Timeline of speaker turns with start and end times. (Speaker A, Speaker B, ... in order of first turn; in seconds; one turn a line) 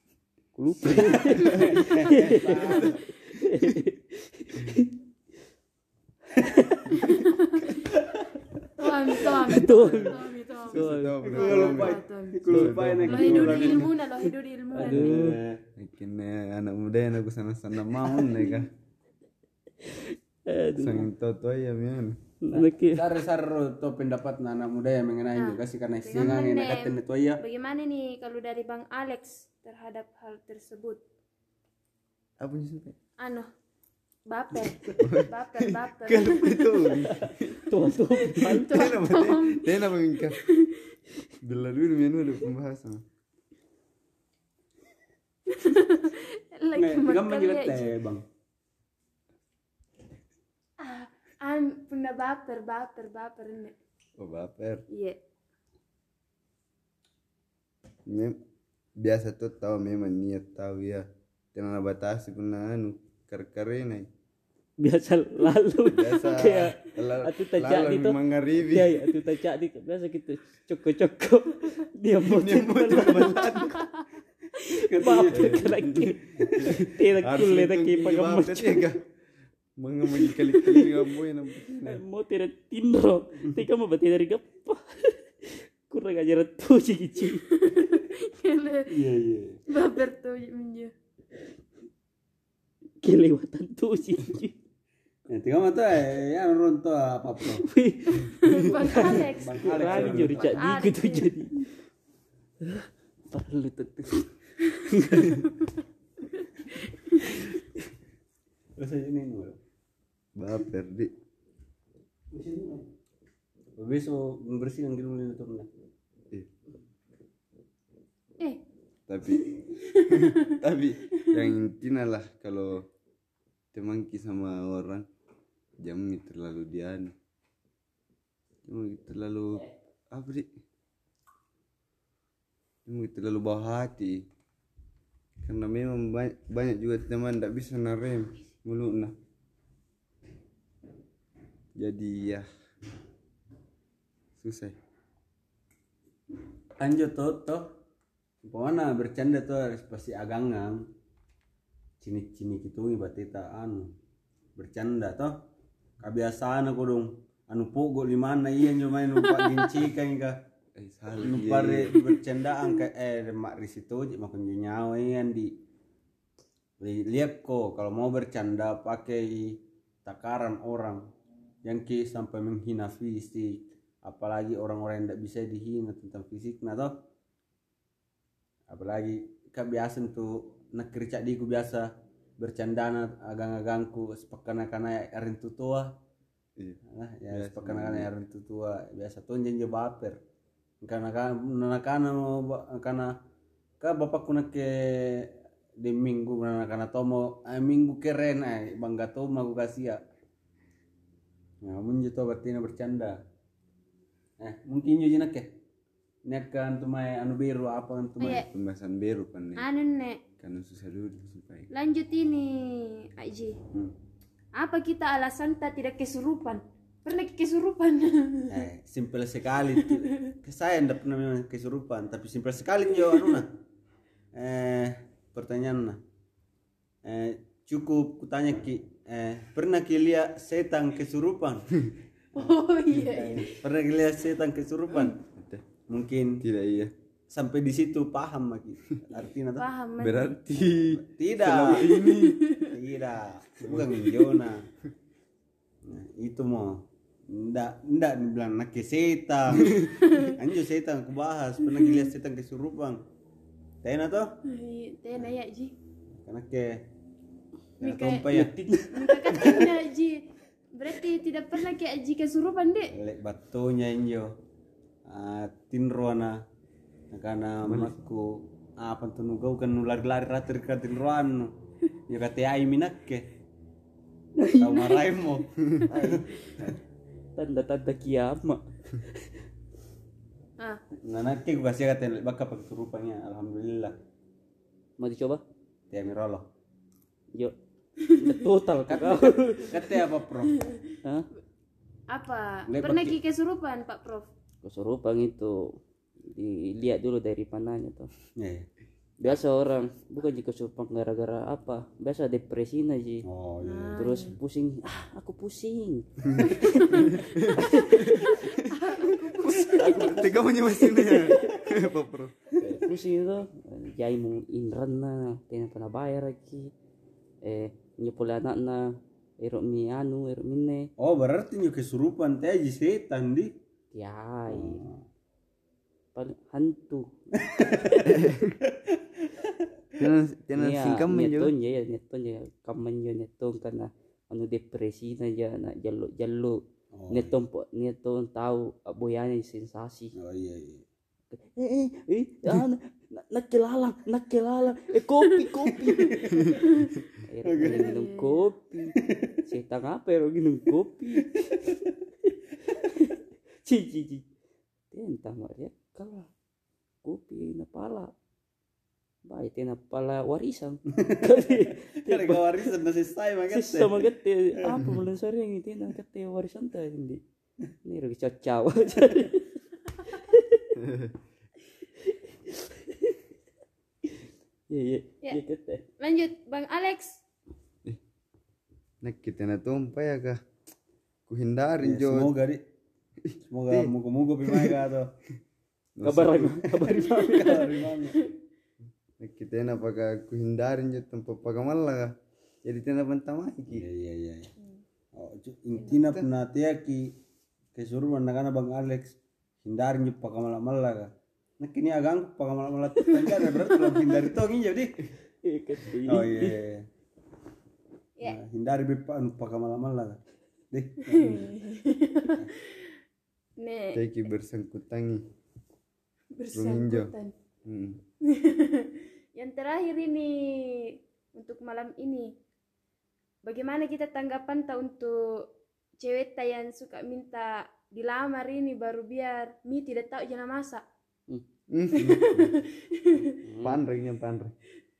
Speaker A: 0.5-5.0
Speaker B: 0.8-1.9
Speaker C: 0.9-3.0
Speaker B: 2.5-3.0
Speaker C: 6.3-6.8
Speaker A: 6.4-6.9
Speaker D: 6.9-7.8
Speaker C: 7.9-10.2
Speaker D: 8.8-12.4
Speaker A: 9.2-11.2
Speaker B: 10.6-13.9
Speaker C: 11.2-13.9
Speaker A: 12.5-12.8
Speaker D: 13.0-15.2
Speaker A: 14.7-15.4
Speaker C: 14.7-15.6
Speaker B: 15.8-18.7
Speaker A: 19.8-21.1
Speaker B: 20.8-22.2
Speaker A: 22.4-23.1
Speaker C: 22.5-27.4
Speaker D: 25.4-31.0
Speaker B: 32.4-33.0
Speaker D: 33.2-33.5
Speaker D: 34.3-37.1
Speaker B: 35.0-40.4
Speaker A: 37.1-38.8
Speaker D: 38.2-40.9
Speaker B: 41.4-43.0
Speaker D: 45.5-47.9
Speaker C: 46.7-48.2
Speaker D: 50.8-53.7
Speaker B: 54.2-54.8
Speaker D: 54.9-55.2
Speaker B: 58.1-58.4
Speaker B: 59.0-64.1
Speaker A: 64.8-73.7
Speaker B: 65.9-69.0
Speaker B: 72.2-73.9
Speaker C: 74.7-75.7
Speaker A: 74.9-78.9
Speaker B: 75.3-79.0
Speaker B: 79.8-82.0
Speaker A: 80.2-80.9
Speaker A: 81.7-87.4
Speaker D: 87.5-88.9
Speaker C: 88.9-89.6
Speaker D: 89.7-90.9
Speaker A: 93.0-94.5
Speaker C: 95.3-97.6
Speaker A: 97.6-101.7
Speaker D: 98.4-101.3
Speaker C: 98.9-100.8
Speaker B: 99.9-100.3
Speaker A: 102.6-105.4
Speaker A: 107.1-107.6
Speaker C: 108.8-109.6
Speaker B: 110.3-111.1
Speaker C: 112.3-112.8
Speaker C: 113.8-115.7
Speaker B: 119.1-122.9
Speaker D: 119.4-120.6
Speaker B: 123.7-125.0
Speaker B: 125.8-127.1
Speaker B: 128.7-130.5
Speaker B: 132.8-134.2
Speaker B: 135.4-139.1
Speaker B: 141.8-142.5
Speaker B: 144.4-144.8
Speaker C: 146.8-147.7
Speaker C: 148.4-150.8
Speaker C: 152.0-153.9
Speaker C: 154.6-155.3
Speaker C: 156.0-160.4
Speaker B: 160.7-162.0
Speaker C: 161.2-165.6
Speaker C: 166.8-171.0
Speaker C: 171.6-177.0
Speaker C: 178.7-185.9
Speaker C: 186.9-190.2
Speaker B: 187.3-188.1
Speaker C: 190.8-193.2
Speaker C: 193.8-200.0
Speaker C: 201.6-203.2
Speaker C: 204.4-205.5
Speaker C: 206.2-208.4
Speaker D: 208.2-208.5
Speaker B: 208.5-209.7
Speaker D: 209.6-210.2
Speaker B: 210.4-211.7
Speaker D: 211.7-213.6
Speaker D: 214.5-218.7
Speaker C: 218.5-223.5
Speaker D: 219.8-220.1
Speaker C: 224.3-226.0
Speaker C: 227.0-231.7
Speaker D: 232.3-233.5
Speaker C: 233.1-235.2
Speaker B: 235.3-235.6
Speaker C: 235.9-236.4
Speaker B: 236.4-236.9
Speaker C: 237.3-239.7
Speaker D: 239.2-240.3
Speaker B: 240.0-242.5
Speaker C: 240.7-241.9
Speaker D: 241.7-242.7
Speaker C: 242.6-244.7
Speaker B: 243.6-244.2
Speaker C: 245.8-253.0
Speaker B: 249.6-249.8
Speaker D: 249.8-250.4
Speaker D: 251.7-252.1
Speaker C: 253.8-254.4
Speaker D: 254.5-255.7
Speaker C: 256.2-256.8
Speaker C: 257.8-258.5
Speaker D: 257.8-258.3
Speaker A: 258.3-259.0
Speaker D: 258.9-262.9
Speaker C: 259.2-259.7
Speaker C: 262.9-264.4
Speaker C: 265.1-266.4
Speaker C: 267.1-271.6
Speaker B: 267.6-267.9
Speaker C: 272.1-273.3
Speaker A: 274.4-275.0
Speaker C: 274.6-276.7
Speaker B: 275.7-276.2
Speaker A: 275.9-276.2
Speaker A: 277.4-279.2
Speaker C: 281.0-283.9
Speaker A: 285.0-285.4
Speaker C: 285.9-286.5
Speaker A: 288.1-290.0
Speaker C: 288.9-290.6
Speaker D: 292.1-294.3
Speaker C: 292.7-293.2
Speaker A: 294.6-295.7
Speaker A: 296.3-298.1
Speaker C: 298.4-298.7
Speaker A: 299.2-303.2
Speaker C: 303.2-304.0
Speaker D: 303.6-304.4
Speaker A: 304.0-308.2
Speaker B: 306.2-312.5
Speaker D: 306.5-311.9
Speaker A: 309.7-310.6
Speaker A: 312.6-316.7
Speaker A: 317.4-320.9
Speaker C: 321.0-323.5
Speaker A: 323.9-324.8
Speaker C: 324.5-325.0
Speaker A: 326.1-327.1
Speaker C: 327.3-330.0
Speaker B: 328.1-328.6
Speaker B: 330.0-331.5
Speaker A: 330.6-340.1
Speaker C: 336.9-337.4
Speaker C: 340.1-340.8
Speaker A: 341.3-346.2
Speaker C: 345.9-346.6
Speaker D: 346.6-346.9
Speaker A: 347.3-351.6
Speaker C: 347.4-348.0
Speaker D: 347.6-348.4
Speaker C: 348.9-349.3
Speaker A: 352.2-354.2
Speaker A: 354.9-356.3
Speaker A: 357.0-358.1
Speaker A: 359.2-362.7
Speaker C: 360.9-364.1
Speaker A: 363.5-367.2
Speaker A: 367.8-370.8
Speaker B: 370.8-371.1
Speaker A: 372.0-373.1
Speaker A: 374.7-375.8
Speaker D: 376.0-377.2
Speaker B: 379.0-380.4
Speaker B: 381.3-382.3
Speaker C: 381.8-382.6
Speaker B: 383.2-383.9
Speaker C: 383.5-385.1
Speaker B: 384.4-384.8
Speaker B: 386.0-386.7
Speaker A: 386.0-387.7
Speaker C: 386.8-388.2
Speaker B: 387.4-388.1
Speaker B: 389.2-393.9
Speaker C: 393.7-394.5
Speaker C: 395.1-397.2
Speaker B: 395.9-396.2
Speaker C: 397.7-405.0
Speaker A: 405.4-406.6
Speaker C: 406.1-406.9
Speaker C: 408.2-410.2
Speaker C: 410.7-411.5
Speaker D: 411.1-412.9
Speaker D: 413.6-414.0
Speaker B: 413.9-415.3
Speaker D: 416.3-417.3
Speaker B: 416.5-417.1
Speaker B: 417.6-418.0
Speaker D: 418.2-422.3
Speaker D: 423.4-425.5
Speaker D: 426.0-430.8
Speaker B: 431.7-432.6
Speaker D: 432.0-433.3
Speaker A: 433.4-433.8
Speaker B: 433.6-434.5